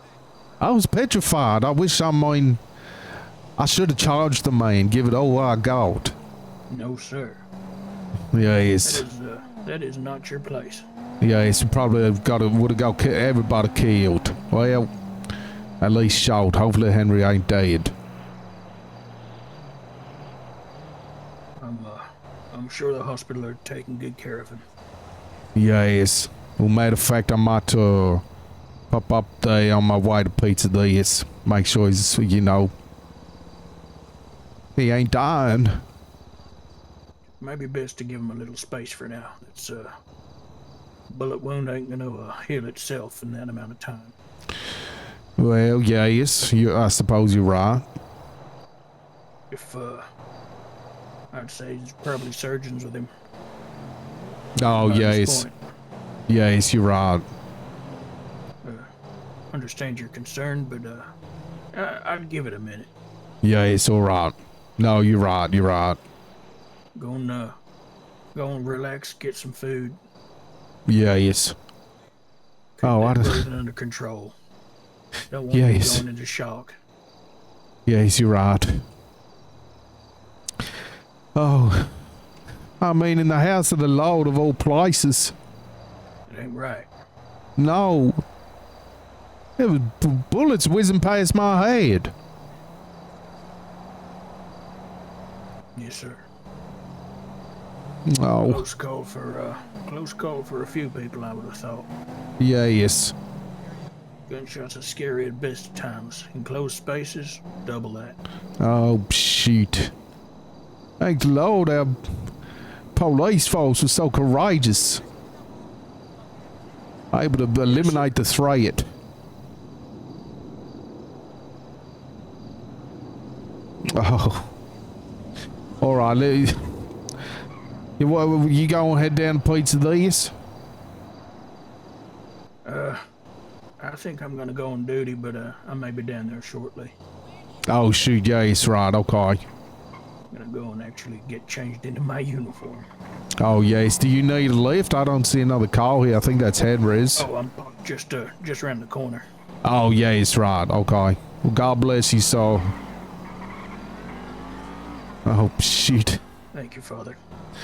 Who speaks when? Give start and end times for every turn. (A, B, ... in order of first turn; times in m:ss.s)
0:00.6-0:02.6 A
0:03.6-0:06.1 A
0:06.7-0:07.4 B
0:08.3-0:09.0 A
0:08.8-0:10.8 B
0:11.2-0:14.9 A
0:15.8-0:17.9 A
0:21.6-0:24.6 B
0:25.6-0:28.2 A
0:28.9-0:32.7 A
0:34.8-0:35.8 A
0:37.4-0:39.9 B
0:41.1-0:44.1 B
0:45.4-0:47.8 A
0:49.5-0:50.0 B
0:51.3-0:53.1 B
0:54.6-0:55.4 A
0:54.7-0:55.6 B
0:56.3-0:57.2 A
0:59.5-1:01.0 B
1:01.7-1:02.9 B
1:03.4-1:06.0 A
1:06.9-1:07.5 B
1:08.3-1:10.0 B
1:10.9-1:11.5 A
1:12.8-1:14.3 B
1:12.8-1:13.5 A
1:15.3-1:16.7 B
1:15.5-1:16.0 A
1:17.9-1:18.8 A
1:21.3-1:21.9 A
1:22.8-1:25.3 A
1:26.3-1:26.9 B
1:27.6-1:28.2 A
1:29.6-1:32.1 A
1:35.8-1:36.2 B
1:38.1-1:38.6 A
1:38.4-1:41.9 B
1:42.4-1:43.1 A
1:44.3-1:48.2 B
1:48.6-1:49.9 A
1:51.0-1:52.0 A
1:52.9-1:55.0 A
1:57.1-1:58.8 A
1:57.6-1:58.1 B
2:03.9-2:04.5 A
2:05.8-2:06.6 A
2:08.0-2:10.3 A
2:12.6-2:13.0 B
2:13.8-2:16.9 B
2:17.7-2:19.4 A
2:20.3-2:22.8 B
2:23.4-2:27.3 A
2:27.1-2:29.2 B
2:29.6-2:32.7 A
2:35.2-2:36.2 A
2:36.5-2:37.2 B